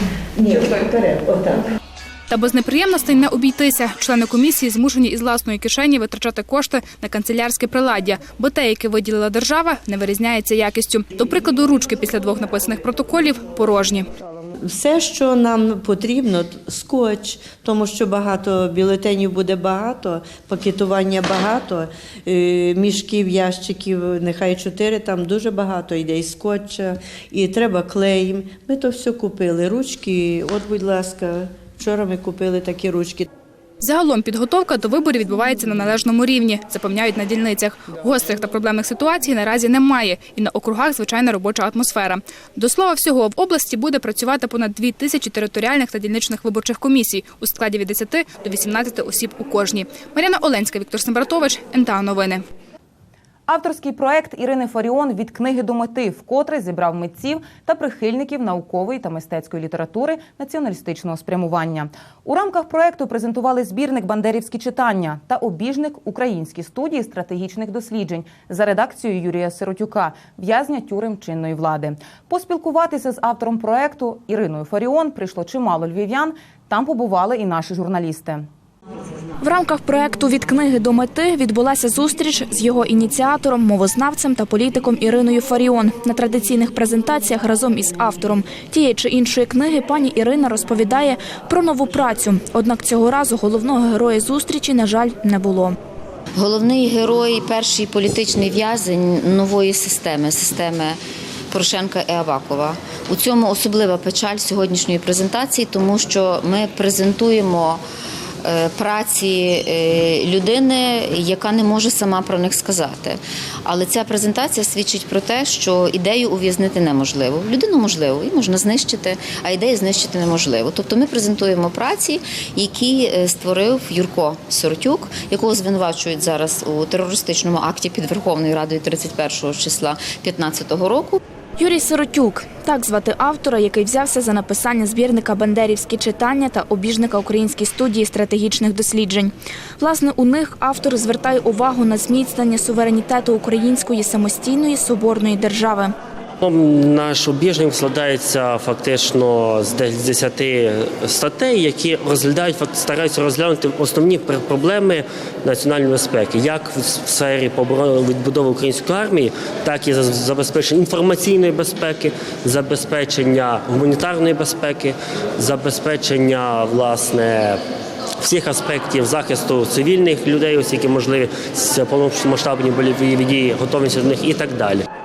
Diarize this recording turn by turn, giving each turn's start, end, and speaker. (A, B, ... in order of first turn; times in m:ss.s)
0:00.4-0:01.7 A
0:02.3-0:14.1 B
0:14.6-0:33.3 A
0:33.8-0:52.4 B
0:53.5-1:18.5 C
1:19.4-1:35.8 D
1:36.4-1:41.0 E
1:41.5-1:47.8 E
1:48.4-2:11.2 E
2:11.6-2:25.9 D
2:26.4-2:47.6 F
2:48.2-2:54.8 F